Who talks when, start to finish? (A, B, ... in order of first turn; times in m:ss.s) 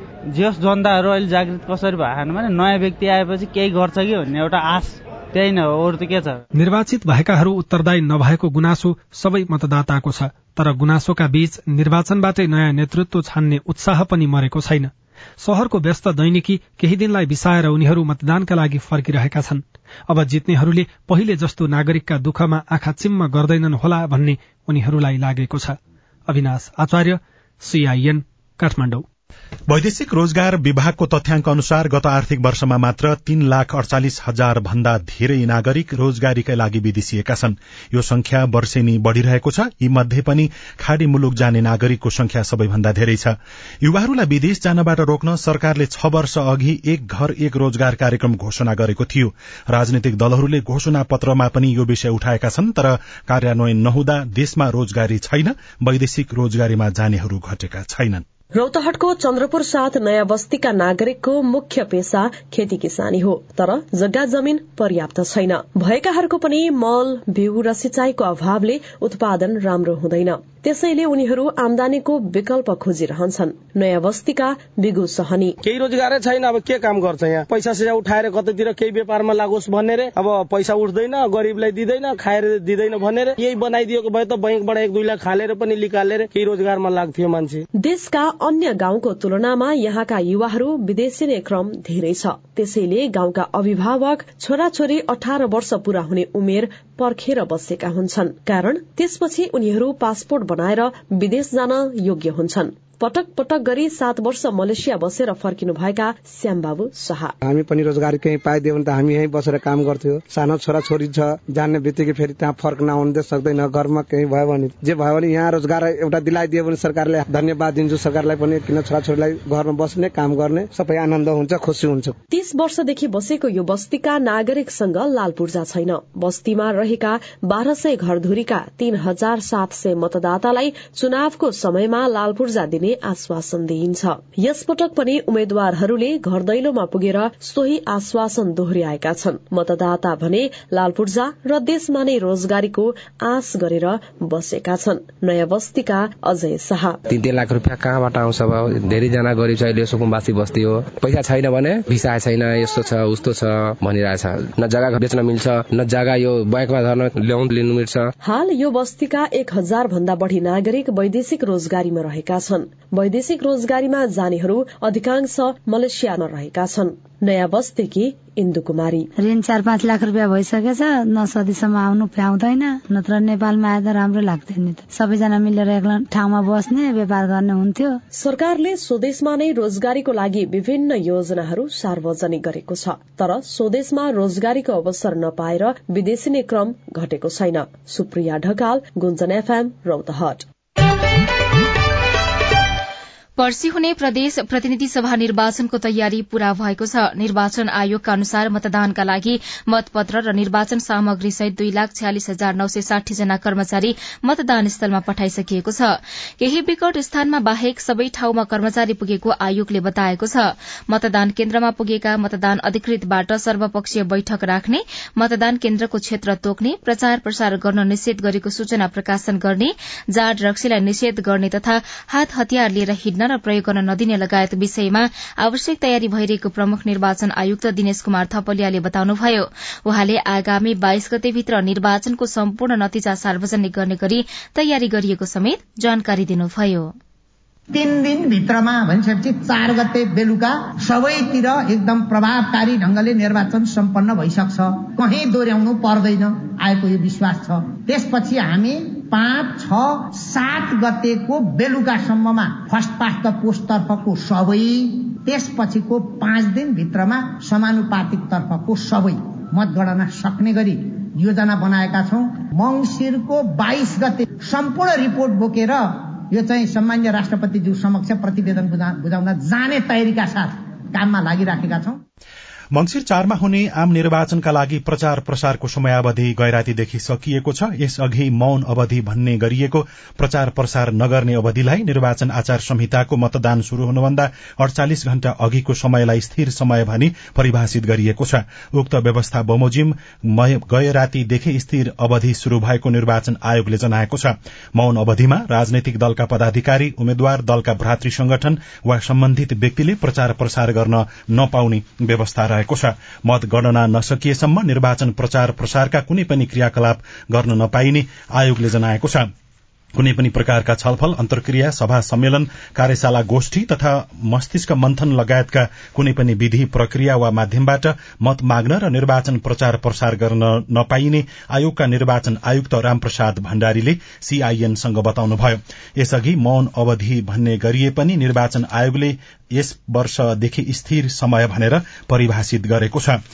0:00.3-0:06.4 A
0:06.6-0:25.8 B
0:26.3-0:29.0 B
0:29.7-0:58.2 C
0:58.6-1:15.6 D
1:15.6-1:27.6 E
1:27.8-1:47.3 D
1:47.4-2:02.2 F
2:02.3-2:27.0 D
2:27.1-2:38.1 G
2:38.2-2:49.1 D
2:49.2-2:58.0 H
2:58.2-3:10.4 D
3:13.4-3:25.9 I
3:26.4-3:56.9 I
3:57.7-4:32.0 J
4:32.7-5:09.3 C
5:10.0-5:33.2 C